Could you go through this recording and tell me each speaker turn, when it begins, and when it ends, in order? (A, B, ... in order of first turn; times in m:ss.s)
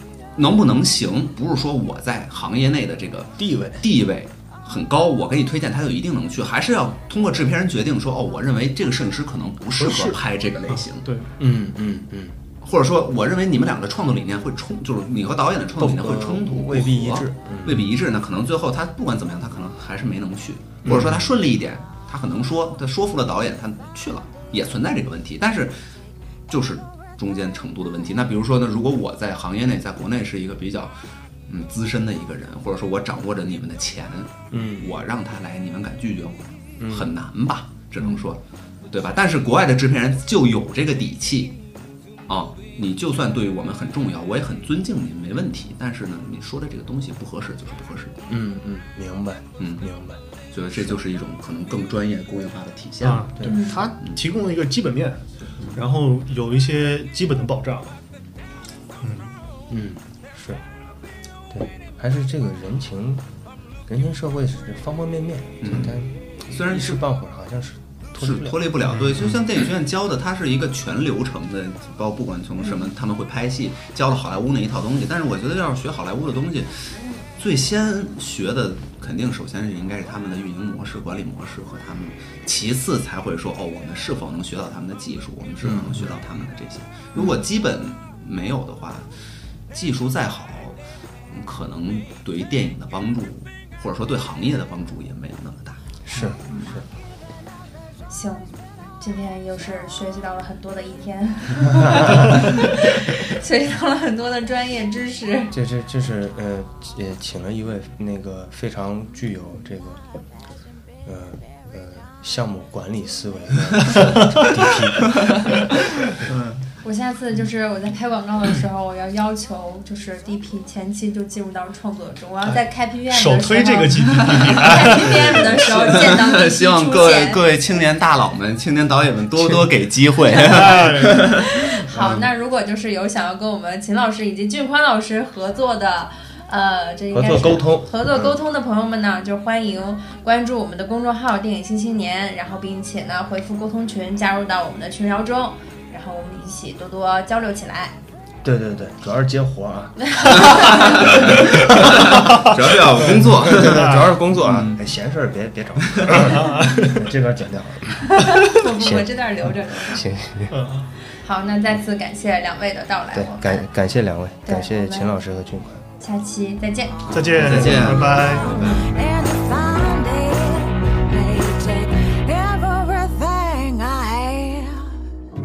0:00.4-0:11.0 A
0:03.4-0:03.8 B
0:10.7-0:11.3 C
0:11.4-0:12.4 B
0:12.6-0:25.8 A
0:15.8-0:17.9 B
0:20.8-0:21.2 B
0:26.5-0:30.9 A
0:31.5-0:41.5 A
0:34.5-0:34.9 B
0:36.8-0:37.1 B
0:42.3-0:48.2 A
0:48.3-0:50.2 B
0:49.6-0:49.8 A
0:50.5-0:53.4 A
0:53.0-0:58.0 C
0:53.4-0:53.8 D
0:59.0-0:59.3 C
0:59.7-1:00.6 B
1:01.5-1:03.2 B
1:03.9-1:08.6 B
1:05.6-1:07.0 A
1:08.2-1:29.1 A
1:08.9-1:09.2 C
1:25.6-1:26.0 B
1:29.7-1:30.8 A
1:31.3-1:35.8 A
1:36.0-1:36.8 B
1:36.5-1:36.8 A
1:38.1-1:45.5 D
1:45.5-1:50.0 B
1:51.0-1:55.5 B
1:54.4-1:54.7 C
1:56.2-1:56.6 C
1:56.8-2:07.4 D
2:03.1-2:05.9 C
2:05.9-2:11.6 A
2:10.5-2:11.2 C
2:11.6-2:28.0 D
2:17.1-2:18.4 B
2:28.4-2:32.2 B
2:30.2-2:30.5 D
2:30.2-2:34.8 A
2:33.0-2:40.6 B
2:33.5-2:34.1 C
2:35.9-2:36.3 A
2:36.2-2:37.0 C
2:38.1-2:40.0 D
2:40.5-2:40.9 C
2:41.1-2:43.6 D
2:43.1-2:45.8 B
2:44.4-2:45.1 D
2:46.0-2:47.2 D
2:47.1-2:48.5 C
2:47.4-2:48.8 A
2:48.0-2:55.0 E